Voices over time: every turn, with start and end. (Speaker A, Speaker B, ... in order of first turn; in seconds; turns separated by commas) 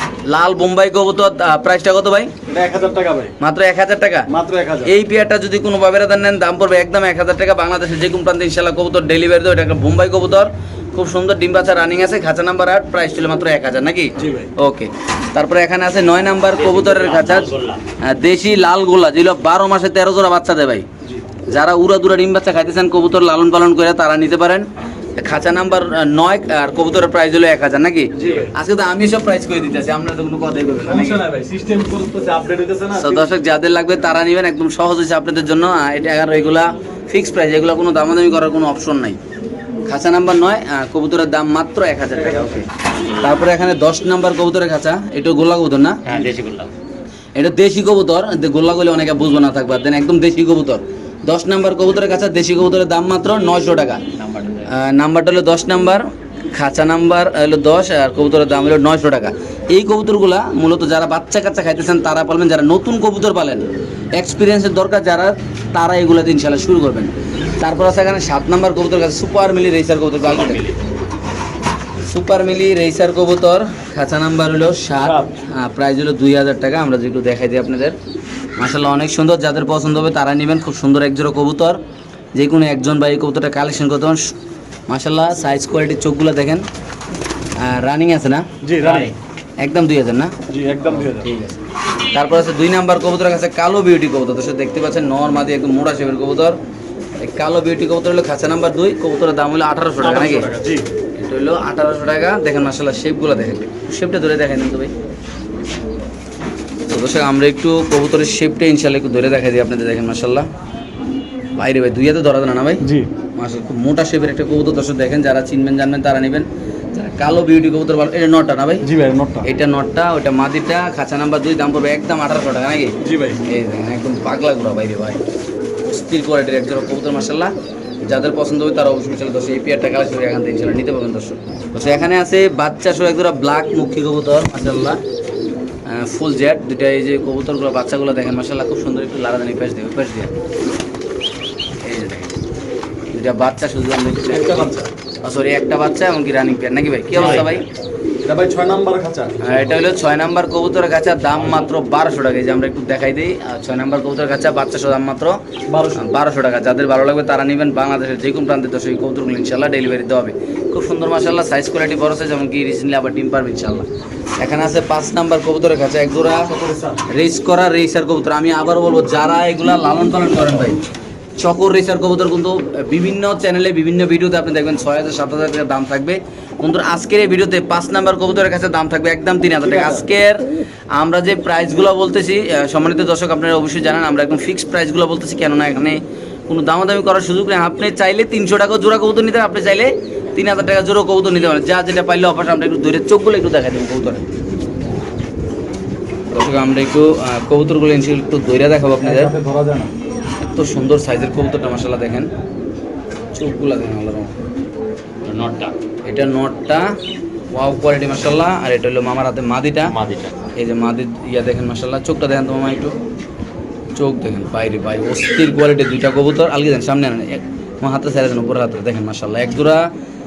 Speaker A: 0.2-2.3, Speaker B: 2.5-3.3, Speaker A: 3.4-4.3, Speaker B: 4.3-4.9, Speaker A: 4.8-20.9, Speaker B: 14.2-14.5, Speaker C: 16.5-17.8, Speaker A: 21.5-31.2, Speaker B: 28.2-28.5, Speaker B: 30.8-33.3, Speaker A: 33.0-39.2, Speaker A: 39.9-42.7, Speaker B: 42.1-42.6, Speaker A: 43.2-46.0, Speaker C: 46.0-46.7, Speaker A: 47.3-54.0, Speaker C: 54.2-54.7, Speaker A: 54.6-70.7, Speaker C: 70.2-70.8, Speaker A: 72.0-77.9, Speaker B: 75.0-75.3, Speaker A: 78.6-81.8, Speaker A: 82.3-84.3, Speaker A: 84.9-86.7, Speaker A: 87.6-88.4, Speaker B: 88.6-89.1, Speaker C: 88.8-89.1, Speaker A: 89.6-90.3, Speaker B: 90.5-91.3, Speaker A: 90.9-91.6, Speaker A: 92.1-96.6, Speaker A: 97.2-100.5, Speaker B: 100.0-100.9, Speaker A: 101.2-104.9, Speaker A: 106.9-110.5, Speaker A: 111.5-112.8, Speaker B: 112.8-113.1, Speaker A: 113.3-118.8, Speaker B: 118.8-119.5, Speaker A: 119.4-125.2, Speaker B: 123.0-123.4, Speaker A: 125.8-127.5, Speaker A: 128.1-135.0, Speaker A: 135.8-140.3, Speaker A: 141.8-142.4, Speaker A: 143.1-147.7, Speaker B: 144.3-144.9, Speaker C: 147.1-147.5, Speaker B: 147.2-147.5, Speaker B: 148.2-149.6, Speaker A: 149.4-155.4, Speaker B: 155.7-156.1, Speaker A: 155.9-163.8, Speaker A: 164.4-166.5, Speaker B: 166.4-167.0, Speaker A: 167.1-170.8, Speaker A: 171.4-194.2, Speaker B: 179.6-180.1, Speaker A: 196.3-199.3, Speaker B: 199.0-199.9, Speaker A: 200.4-202.3, Speaker A: 203.3-204.3, Speaker C: 205.2-205.7, Speaker A: 206.0-206.9, Speaker A: 207.5-209.9, Speaker C: 209.8-210.4, Speaker A: 210.5-212.9, Speaker A: 213.9-219.9